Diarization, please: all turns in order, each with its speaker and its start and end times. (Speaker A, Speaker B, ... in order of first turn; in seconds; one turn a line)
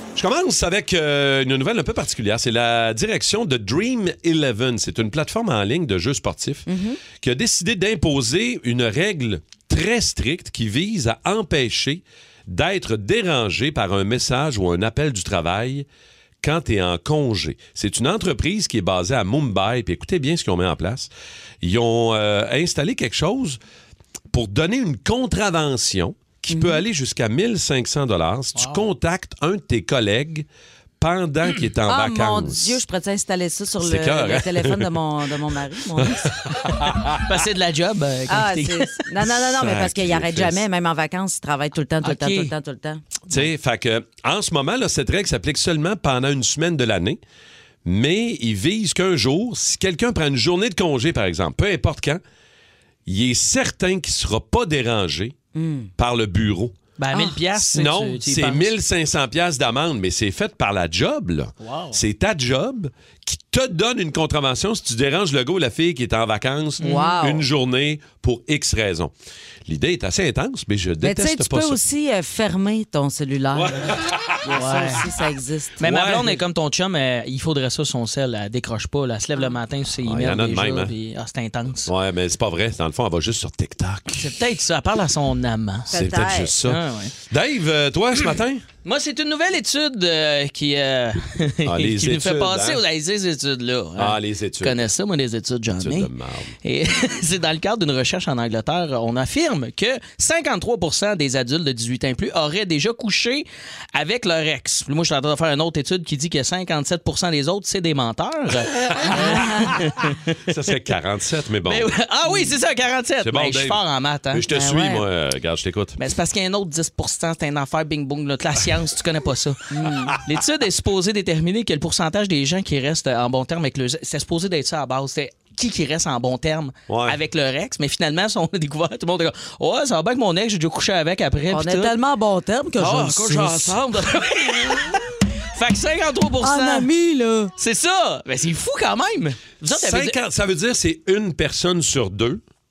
Speaker A: 0.1-15.8
Speaker B: 6.7-7.0
Speaker A: 16.4-21.1
Speaker A: 21.6-23.6
Speaker A: 24.3-30.5
Speaker B: 26.5-26.8
Speaker C: 28.6-28.8
Speaker A: 31.0-32.8
Speaker B: 31.9-36.3
Speaker A: 33.8-34.9
Speaker A: 36.0-37.1
Speaker C: 36.8-38.9
Speaker B: 38.3-43.2
Speaker A: 39.3-40.6
Speaker C: 42.0-42.5
Speaker A: 43.3-47.2
Speaker A: 47.8-52.2
Speaker A: 53.1-55.3
Speaker B: 55.5-55.9
Speaker A: 56.0-56.7
Speaker C: 57.0-58.7
Speaker A: 57.5-69.1
Speaker C: 61.6-62.0
Speaker C: 66.8-67.1
Speaker B: 66.8-67.4
Speaker A: 69.7-71.8
Speaker B: 71.0-75.8
Speaker A: 73.5-74.4
Speaker C: 74.5-75.1
Speaker C: 75.8-81.9
Speaker A: 75.8-76.3
Speaker A: 80.0-80.9
Speaker A: 81.8-84.3
Speaker C: 84.1-85.9
Speaker B: 85.9-86.5
Speaker A: 85.9-88.6
Speaker C: 86.6-87.1
Speaker C: 88.8-96.1
Speaker A: 91.6-92.8
Speaker A: 94.0-94.9
Speaker A: 95.7-96.5
Speaker C: 96.6-110.3
Speaker A: 109.1-109.4
Speaker B: 109.1-109.8
Speaker A: 110.5-111.9
Speaker C: 111.7-114.4
Speaker A: 113.2-113.8
Speaker A: 114.3-116.0
Speaker B: 114.5-115.0
Speaker C: 116.0-131.9
Speaker B: 119.7-120.2
Speaker A: 126.9-127.2
Speaker B: 131.5-133.8
Speaker C: 132.8-135.0
Speaker C: 135.5-136.9
Speaker B: 136.4-137.5
Speaker C: 137.6-140.2
Speaker A: 139.7-142.4